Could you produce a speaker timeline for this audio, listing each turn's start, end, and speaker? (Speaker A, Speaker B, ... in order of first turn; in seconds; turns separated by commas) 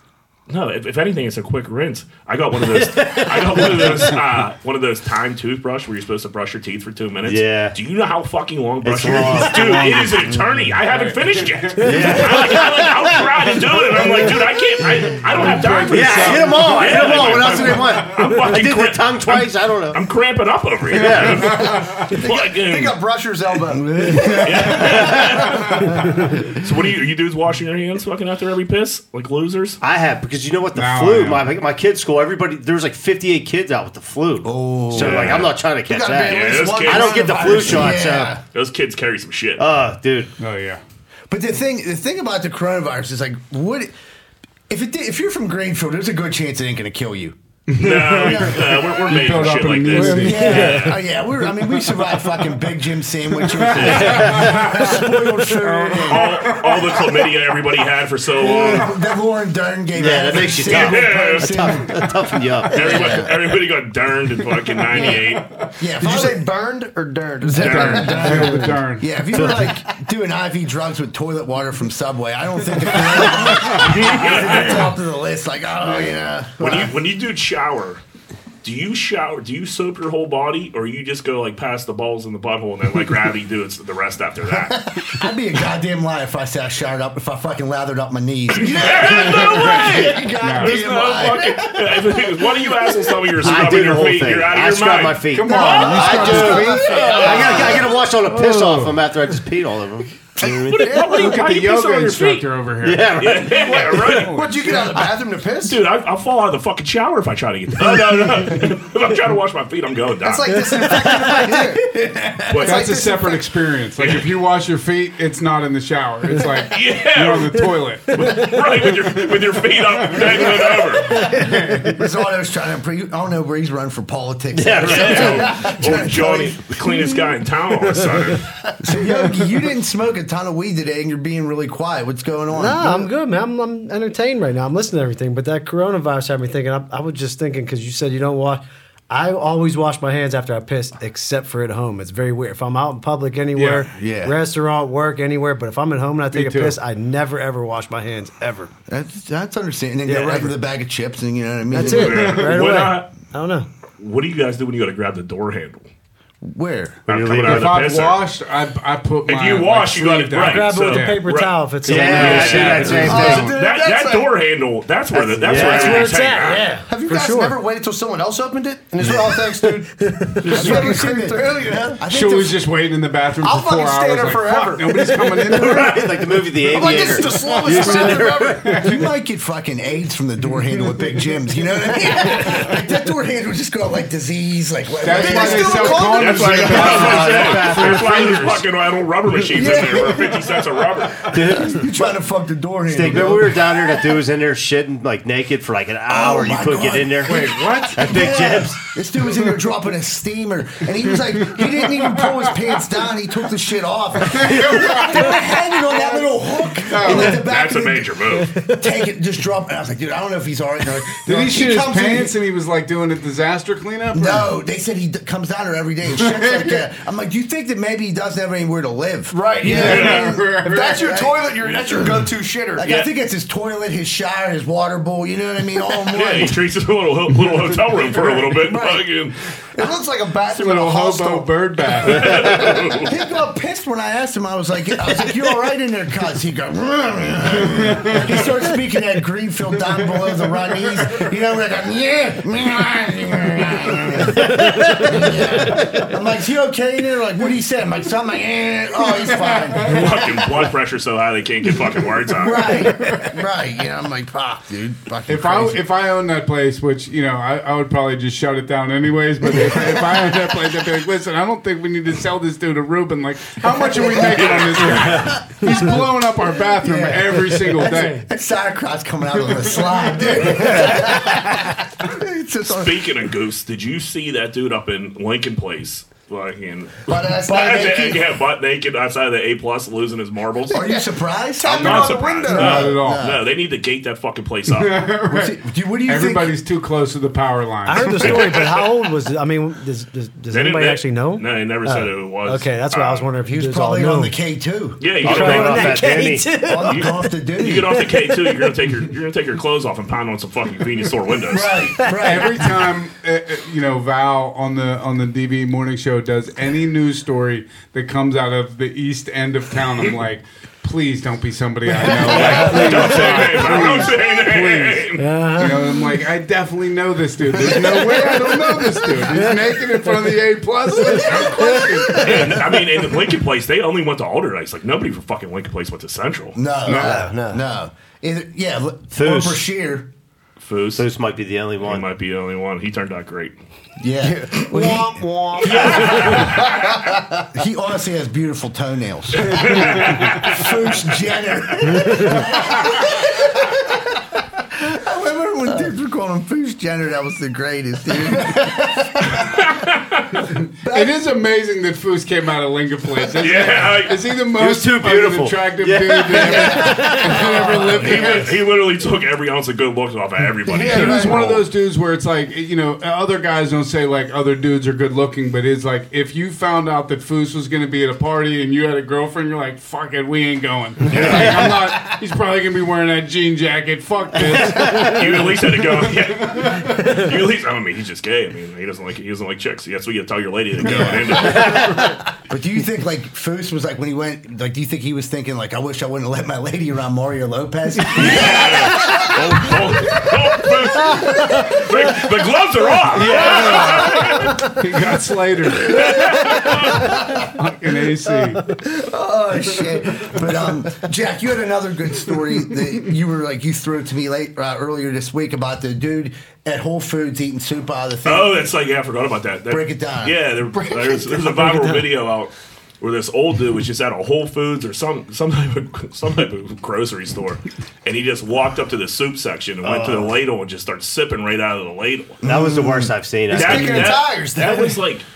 Speaker A: 0.5-23.0, Speaker B: 2.7-4.1, Speaker B: 7.2-7.7, Speaker B: 8.8-10.2, Speaker C: 9.0-10.1, Speaker C: 10.9-12.3, Speaker B: 11.8-14.4, Speaker C: 15.1-16.9, Speaker B: 15.9-20.0, Speaker D: 16.9-17.7, Speaker B: 20.9-21.7, Speaker D: 21.4-25.4, Speaker C: 21.6-21.9, Speaker E: 23.7-25.4, Speaker A: 24.4-29.8, Speaker C: 25.6-26.3, Speaker B: 29.8-38.4, Speaker C: 30.7-31.5, Speaker E: 34.4-35.5, Speaker A: 34.9-35.5, Speaker D: 35.3-37.9, Speaker A: 36.2-37.9, Speaker E: 37.4-38.4, Speaker A: 38.5-39.6, Speaker B: 39.6-40.3, Speaker C: 40.4-40.8, Speaker E: 41.3-43.9, Speaker E: 44.7-47.4, Speaker C: 47.7-50.7, Speaker A: 47.8-51.0, Speaker F: 49.9-51.0, Speaker E: 50.0-56.4, Speaker C: 53.5-55.0, Speaker A: 53.7-54.2, Speaker B: 53.8-54.8, Speaker C: 55.5-56.9, Speaker A: 56.0-58.9, Speaker E: 58.4-63.3, Speaker B: 59.9-63.3, Speaker A: 60.6-61.8, Speaker A: 62.7-65.5, Speaker C: 65.0-65.7, Speaker E: 65.8-66.5, Speaker D: 66.0-68.7, Speaker A: 67.5-68.2, Speaker E: 67.6-76.9, Speaker C: 67.6-69.1, Speaker B: 69.3-69.8, Speaker C: 73.5-73.9, Speaker A: 73.6-74.9, Speaker A: 76.6-78.0, Speaker A: 78.6-85.1, Speaker E: 85.1-93.3, Speaker A: 88.5-95.3, Speaker C: 89.2-90.8, Speaker B: 93.3-100.4, Speaker C: 95.3-97.1, Speaker E: 95.4-97.9, Speaker D: 95.5-98.0, Speaker C: 98.2-99.0, Speaker D: 100.4-101.4, Speaker A: 100.4-102.5, Speaker C: 101.0-104.9, Speaker B: 102.8-103.6, Speaker A: 103.2-104.4, Speaker D: 103.6-105.8, Speaker A: 105.6-111.1, Speaker D: 110.2-111.8, Speaker E: 111.8-112.6, Speaker A: 112.5-112.8, Speaker D: 112.5-113.5, Speaker C: 112.6-118.4, Speaker A: 114.0-114.3, Speaker A: 116.7-121.2, Speaker F: 118.2-118.5, Speaker C: 120.0-120.4, Speaker E: 120.2-126.7, Speaker F: 121.0-121.9, Speaker C: 121.2-121.9, Speaker B: 124.5-125.5, Speaker A: 124.8-128.6, Speaker E: 128.8-133.1, Speaker F: 132.5-148.7, Speaker C: 143.5-143.8, Speaker E: 143.9-144.3, Speaker C: 146.3-146.8, Speaker E: 148.9-152.3, Speaker F: 150.1-150.5, Speaker F: 151.7-153.7, Speaker A: 151.8-153.1, Speaker C: 152.2-152.6, Speaker A: 154.0-155.9, Speaker E: 156.4-157.2, Speaker A: 157.1-158.2, Speaker B: 157.1-157.8, Speaker C: 157.4-161.2, Speaker A: 159.3-166.7, Speaker F: 160.3-163.1, Speaker B: 161.8-163.5, Speaker C: 161.8-163.6, Speaker D: 163.0-164.3, Speaker D: 165.1-166.1, Speaker B: 165.4-166.1, Speaker F: 165.5-167.6, Speaker D: 166.9-172.0, Speaker E: 169.0-169.3, Speaker F: 170.0-171.0, Speaker E: 170.4-172.6, Speaker C: 172.1-176.1, Speaker D: 173.4-175.2, Speaker B: 175.5-178.8, Speaker D: 176.7-178.8, Speaker C: 177.4-179.0, Speaker E: 178.8-186.1, Speaker D: 182.0-182.7, Speaker C: 185.0-188.6, Speaker D: 185.1-187.4, Speaker A: 185.9-191.4, Speaker B: 186.5-188.3, Speaker D: 189.5-190.3, Speaker B: 191.3-191.9, Speaker E: 191.5-193.9, Speaker B: 192.9-198.8, Speaker E: 196.1-212.3, Speaker C: 197.2-198.2, Speaker C: 201.5-202.5, Speaker C: 204.3-206.2, Speaker C: 206.8-207.4, Speaker A: 207.2-208.6, Speaker C: 211.2-214.5, Speaker E: 214.1-222.1, Speaker C: 216.1-216.8, Speaker D: 219.3-222.9, Speaker C: 219.6-221.1, Speaker A: 219.8-220.2, Speaker E: 222.8-226.6, Speaker A: 225.9-229.4, Speaker D: 228.2-228.8, Speaker E: 228.5-229.0, Speaker D: 229.7-231.5, Speaker C: 230.5-232.5, Speaker A: 232.0-233.1, Speaker D: 232.0-233.1, Speaker E: 232.9-250.2, Speaker C: 237.7-238.3, Speaker F: 244.6-245.1, Speaker C: 249.3-250.1, Speaker A: 249.8-252.8, Speaker E: 252.3-255.8, Speaker C: 252.7-253.3, Speaker C: 255.3-268.2, Speaker E: 259.5-260.0, Speaker E: 263.8-265.6, Speaker E: 266.8-273.1, Speaker C: 270.6-271.0, Speaker A: 272.6-280.9, Speaker D: 277.1-277.6, Speaker E: 277.3-278.3, Speaker E: 280.7-283.5, Speaker D: 280.7-281.0, Speaker D: 281.6-282.9, Speaker A: 281.7-285.0, Speaker C: 282.5-283.2, Speaker C: 284.7-288.4, Speaker E: 285.3-286.6, Speaker F: 287.8-294.3, Speaker A: 288.2-289.0, Speaker A: 290.5-293.3, Speaker E: 293.4-295.0, Speaker A: 295.0-301.9, Speaker F: 295.2-297.3, Speaker B: 295.2-296.5, Speaker E: 296.6-298.1, Speaker F: 298.0-298.7, Speaker E: 301.5-302.7, Speaker C: 302.2-315.0, Speaker A: 312.2-315.3, Speaker F: 315.1-315.9, Speaker C: 315.5-322.3, Speaker D: 317.7-319.5, Speaker F: 318.3-318.7, Speaker E: 321.1-322.2, Speaker D: 321.2-321.6, Speaker F: 321.4-322.6, Speaker A: 322.1-326.6, Speaker E: 326.5-330.1, Speaker C: 326.8-327.2, Speaker D: 327.0-327.6, Speaker B: 329.1-329.6, Speaker A: 330.6-331.0, Speaker B: 330.9-332.1, Speaker A: 331.8-333.5, Speaker E: 334.0-335.2, Speaker D: 334.2-337.4, Speaker A: 335.6-336.9, Speaker E: 335.7-336.6, Speaker E: 337.5-344.0, Speaker A: 339.5-340.7, Speaker C: 340.0-340.3, Speaker E: 344.7-349.6, Speaker A: 349.5-350.2, Speaker C: 350.5-358.5, Speaker E: 350.8-351.1, Speaker A: 353.4-354.3, Speaker B: 354.5-357.1, Speaker D: 356.4-358.5, Speaker F: 356.8-357.3, Speaker A: 357.3-361.6, Speaker B: 357.7-358.0, Speaker D: 360.6-361.6, Speaker C: 360.8-377.1, Speaker A: 371.1-371.5, Speaker A: 374.8-382.1, Speaker E: 380.8-391.9, Speaker F: 381.8-382.1, Speaker C: 388.1-388.5, Speaker A: 388.1-394.6, Speaker C: 393.1-396.2, Speaker A: 395.8-397.2, Speaker C: 397.4-398.7, Speaker E: 398.8-408.5, Speaker A: 408.2-422.4, Speaker E: 409.7-410.4, Speaker D: 410.8-411.5, Speaker E: 422.4-423.1, Speaker B: 422.4-424.2, Speaker D: 423.5-425.0, Speaker A: 423.5-425.2